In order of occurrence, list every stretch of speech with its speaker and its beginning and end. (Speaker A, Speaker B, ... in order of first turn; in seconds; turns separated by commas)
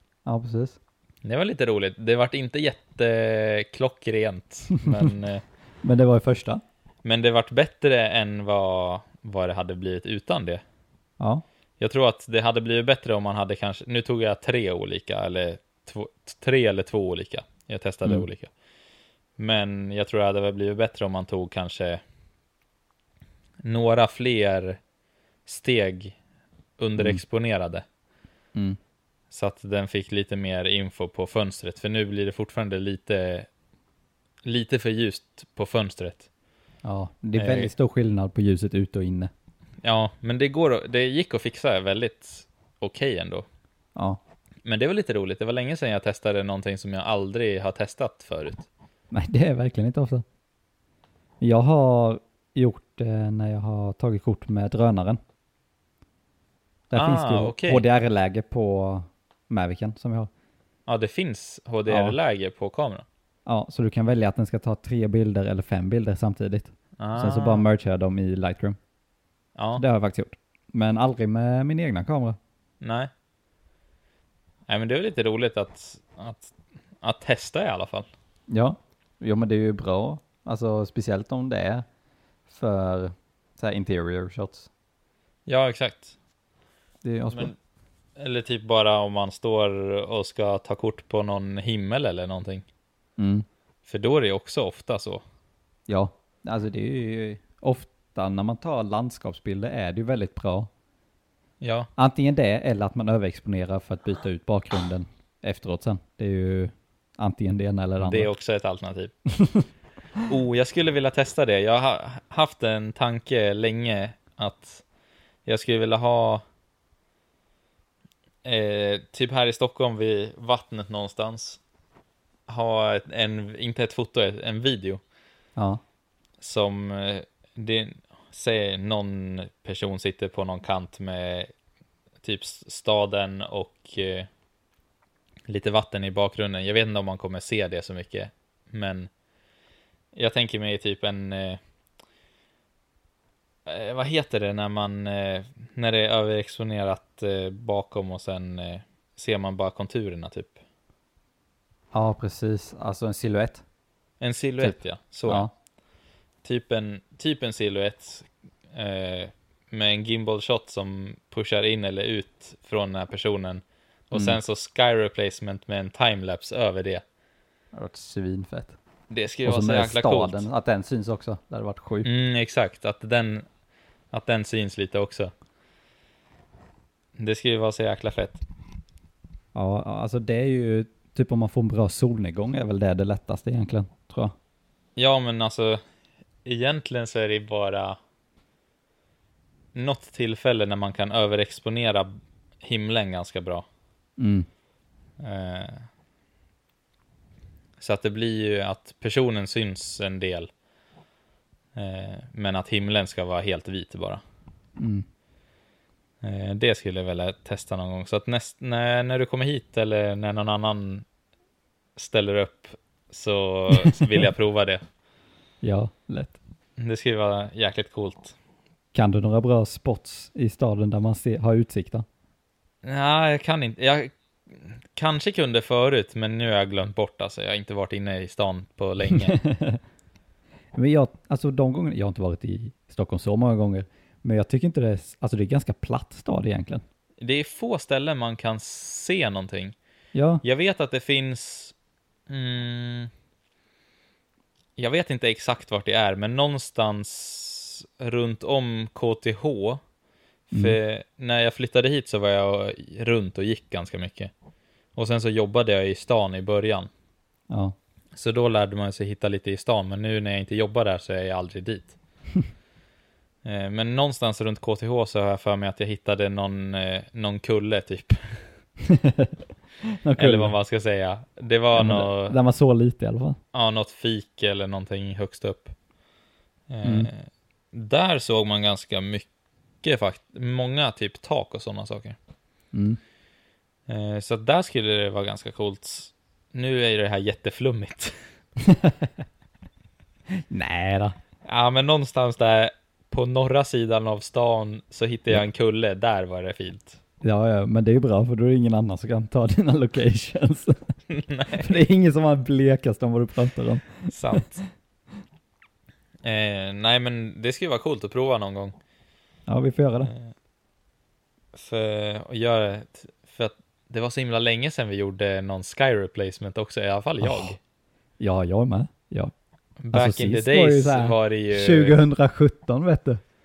Speaker A: 0.3-0.8, Speaker B: 1.2-5.4, Speaker A: 4.7-5.1, Speaker A: 5.8-6.6, Speaker B: 7.0-10.6, Speaker B: 11.8-18.5, Speaker B: 19.4-22.0, Speaker B: 23.6-24.8, Speaker B: 25.5-26.2, Speaker B: 26.8-27.8, Speaker B: 29.3-33.5, Speaker B: 34.5-36.3, Speaker A: 36.8-39.3, Speaker B: 37.4-37.7, Speaker B: 39.8-43.5, Speaker B: 44.6-48.7, Speaker A: 49.1-50.2, Speaker A: 51.4-55.2, Speaker A: 56.9-60.3, Speaker B: 57.0-57.8, Speaker B: 60.9-63.0, Speaker A: 61.9-62.2, Speaker A: 63.5-68.8, Speaker B: 67.0-67.7, Speaker B: 69.6-69.8, Speaker A: 69.8-72.4, Speaker B: 72.8-73.1, Speaker B: 74.7-78.1, Speaker A: 78.5-81.8, Speaker A: 82.5-84.7, Speaker B: 85.5-86.2, Speaker A: 87.0-87.5, Speaker B: 88.2-92.7, Speaker A: 93.2-93.5, Speaker B: 93.9-95.2, Speaker A: 95.9-100.7, Speaker B: 101.6-101.9, Speaker A: 102.0-108.3, Speaker B: 108.0-109.1, Speaker B: 110.3-114.8, Speaker B: 115.5-116.4, Speaker B: 118.4-121.6, Speaker B: 122.5-125.0, Speaker B: 126.4-131.5, Speaker B: 132.2-134.3, Speaker B: 135.5-139.1, Speaker B: 140.1-141.6, Speaker B: 143.7-150.6, Speaker A: 151.9-153.6, Speaker B: 154.2-155.5, Speaker A: 155.3-155.5, Speaker B: 156.4-167.0, Speaker A: 164.1-164.4, Speaker A: 167.7-168.8, Speaker B: 169.1-170.5, Speaker A: 169.4-172.1, Speaker B: 172.1-173.5, Speaker B: 174.1-175.3, Speaker B: 177.2-178.4, Speaker A: 179.6-184.3, Speaker B: 185.0-185.8, Speaker B: 186.4-188.0, Speaker B: 189.7-192.1, Speaker B: 192.6-193.7, Speaker A: 194.2-194.5, Speaker B: 195.2-195.9, Speaker B: 197.8-200.5, Speaker B: 201.8-204.2, Speaker A: 204.8-205.1, Speaker B: 206.2-211.1, Speaker B: 212.0-214.8, Speaker A: 213.7-214.2, Speaker A: 215.6-216.4, Speaker B: 216.8-218.3, Speaker A: 218.9-222.1, Speaker B: 222.8-229.4, Speaker A: 229.1-229.8, Speaker A: 230.8-236.8, Speaker B: 237.2-239.8, Speaker A: 240.1-240.4, Speaker B: 240.4-241.7, Speaker B: 242.3-243.1, Speaker B: 244.8-249.8, Speaker A: 250.5-250.8, Speaker B: 250.5-254.3, Speaker B: 254.9-256.9, Speaker A: 257.5-257.8, Speaker B: 258.1-261.9, Speaker B: 263.4-268.4, Speaker A: 268.8-269.4, Speaker A: 270.0-270.6, Speaker B: 270.2-272.4, Speaker A: 271.8-273.4, Speaker B: 273.5-275.7, Speaker B: 276.7-279.3, Speaker A: 276.8-277.1, Speaker B: 279.8-282.2, Speaker A: 282.7-283.0, Speaker B: 283.9-288.1, Speaker A: 288.6-289.1, Speaker A: 290.4-291.1, Speaker B: 291.4-297.0, Speaker A: 297.2-300.9, Speaker B: 301.1-301.8, Speaker A: 301.6-304.4, Speaker B: 304.1-304.6, Speaker B: 306.2-308.8, Speaker A: 309.5-310.1, Speaker B: 311.5-317.6, Speaker A: 318.2-319.3, Speaker B: 319.8-322.0, Speaker A: 319.9-323.2